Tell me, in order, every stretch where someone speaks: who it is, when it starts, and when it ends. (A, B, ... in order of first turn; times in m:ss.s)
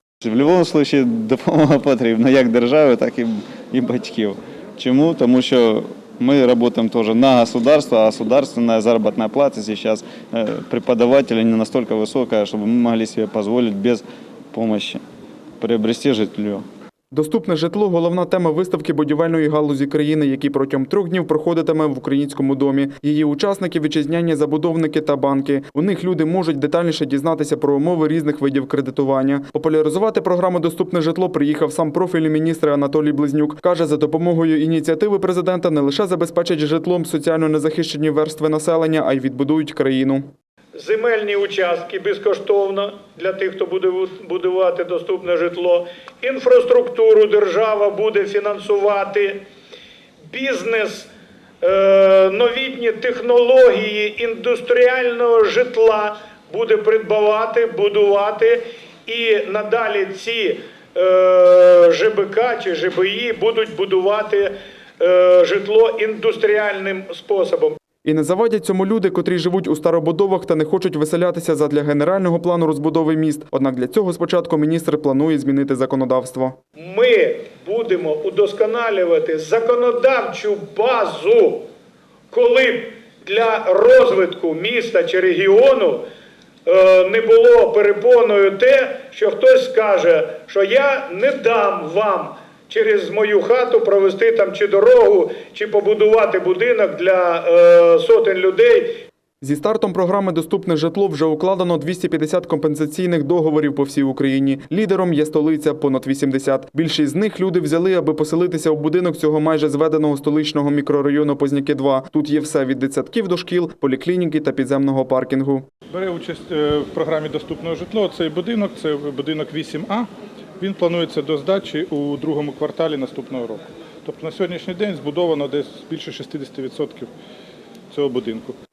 0:00.2-0:15.0 A
0:15.6-0:16.6 A
0:17.1-0:40.3 B
0:40.7-0:49.4 C
0:50.3-0:51.1 C
0:51.6-1:07.8 C
1:08.0-1:16.6 B
1:16.8-1:21.7 C
1:22.3-1:26.1 C
1:26.6-1:39.0 C
1:39.4-1:55.6 B
1:55.9-2:07.1 D
2:07.9-2:08.6 D